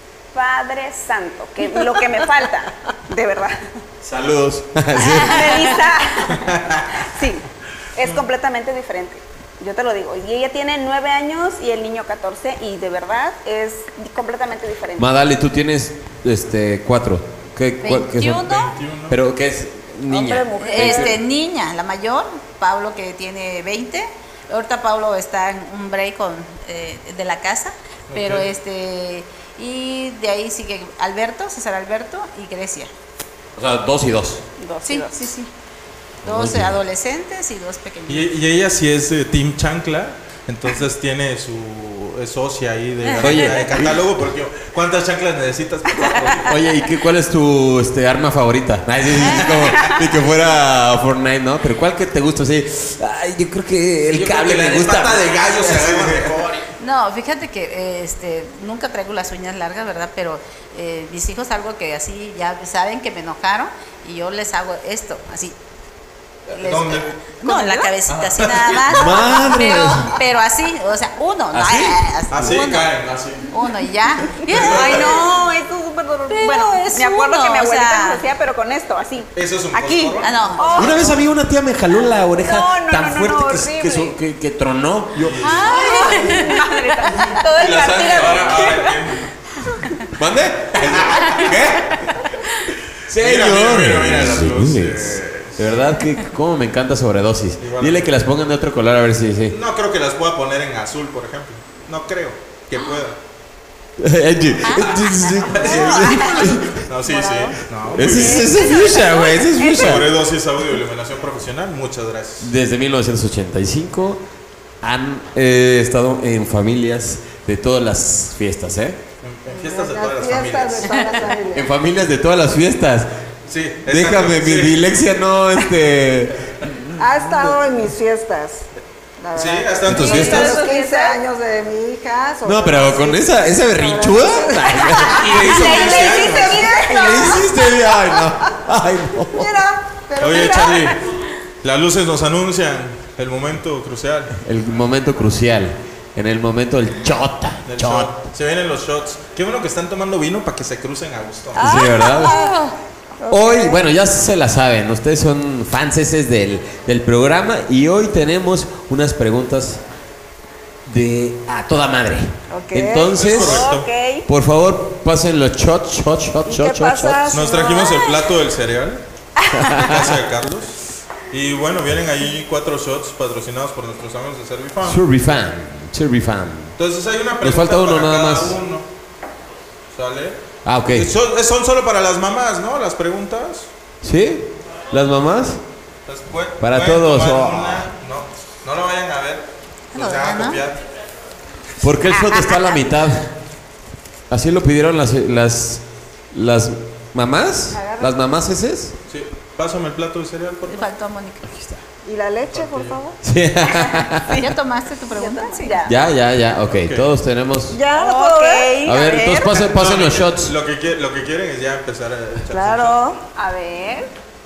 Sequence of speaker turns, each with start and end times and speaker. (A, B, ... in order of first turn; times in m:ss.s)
0:00.3-0:03.6 A
0:04.0-0:05.8 B
0:05.0-0:05.6 C
0:05.2-0:06.4 A
0:06.4-0:07.0 D
0:07.0-0:15.1 A
0:15.0-0:18.5 B
0:17.8-0:18.7 C
0:18.4-0:19.2 D
0:19.1-0:21.2 B
0:20.1-0:21.2 E
0:20.6-0:32.9 C
0:28.1-0:28.5 D
0:33.6-0:34.4 B
0:34.6-0:35.4 A
0:34.8-0:35.5 C
0:36.2-0:36.8 B
0:36.2-0:38.3 C
0:38.1-0:46.6 D
0:43.0-0:43.6 C
0:43.2-0:44.0 B
0:46.4-0:56.6 B
0:49.2-0:49.5 C
0:49.2-0:50.0 D
0:54.1-0:56.6 D
0:56.8-1:05.6 C
1:06.5-1:12.9 C
1:06.5-1:07.2 D
1:07.4-1:07.9 A
1:08.1-1:09.3 D
1:08.9-1:10.2 B
1:11.5-1:12.0 B
1:12.3-1:13.5 D
1:13.5-1:15.4 C
1:14.5-1:15.3 D
1:14.5-1:21.2 A
1:16.3-1:18.2 C
1:19.4-1:20.8 D
1:20.2-1:21.1 C
1:20.8-1:28.8 B
1:22.4-1:24.2 A
1:25.2-1:25.8 D
1:25.4-1:26.6 C
1:25.7-1:29.0 A
1:27.6-1:29.3 D
1:30.1-1:32.3 B
1:30.8-1:31.6 D
1:32.9-1:39.6 B
1:33.1-1:35.8 D
1:37.6-1:38.2 D
1:39.5-1:43.2 D
1:44.0-1:46.9 B
1:44.6-1:46.2 C
1:45.5-1:48.6 D
1:47.1-1:47.5 A
1:47.9-1:50.2 B
1:48.1-1:49.9 A
1:49.7-1:52.5 D
1:52.4-1:54.2 B
1:54.8-1:59.0 B
1:59.2-2:01.2 D
1:59.5-2:01.7 E
2:01.5-2:03.1 B
2:03.5-2:04.8 D
2:03.9-2:07.6 B
2:07.0-2:08.6 E
2:09.2-2:18.5 E
2:09.4-2:10.6 D
2:09.9-2:10.6 B
2:10.0-2:11.2 A
2:12.4-2:16.0 B
2:15.1-2:16.8 D
2:15.3-2:17.4 A
2:16.8-2:19.6 B
2:19.3-2:21.0 E
2:20.2-2:21.0 D
2:21.6-2:24.4 D
2:24.4-2:28.2 B
2:27.7-2:31.7 D
2:31.6-2:33.9 E
2:31.6-2:32.4 B
2:33.3-2:39.8 B
2:40.9-2:43.7 B
2:42.5-2:43.2 E
2:43.2-2:43.9 D
2:43.4-2:44.3 A
2:44.3-2:47.3 B
2:46.4-2:48.2 E
2:47.3-2:49.0 D
2:49.5-2:50.2 B
2:49.7-2:55.1 D
2:54.8-2:56.8 B
2:56.8-2:58.9 D
2:57.4-2:58.6 B
2:59.9-3:03.7 D
3:00.6-3:01.1 B
3:04.0-3:05.6 B
3:06.1-3:10.8 D
3:06.6-3:07.9 B
3:09.9-3:10.6 C
3:11.8-3:13.3 B
3:12.2-3:12.7 A
3:14.3-3:19.0 B
3:17.7-3:18.2 E
3:19.1-3:20.9 D
3:20.7-3:21.5 C
3:21.4-3:21.8 B
3:22.0-3:23.2 E
3:22.5-3:23.0 D
3:23.2-3:24.4 B
3:24.3-3:25.8 C
3:25.1-3:26.1 A
3:25.9-3:27.8 B
3:26.7-3:27.1 D
3:27.7-3:28.8 E
3:27.9-3:29.5 A
3:28.8-3:30.6 B
3:29.4-3:33.0 D
3:32.5-3:33.2 E
3:33.4-3:34.1 A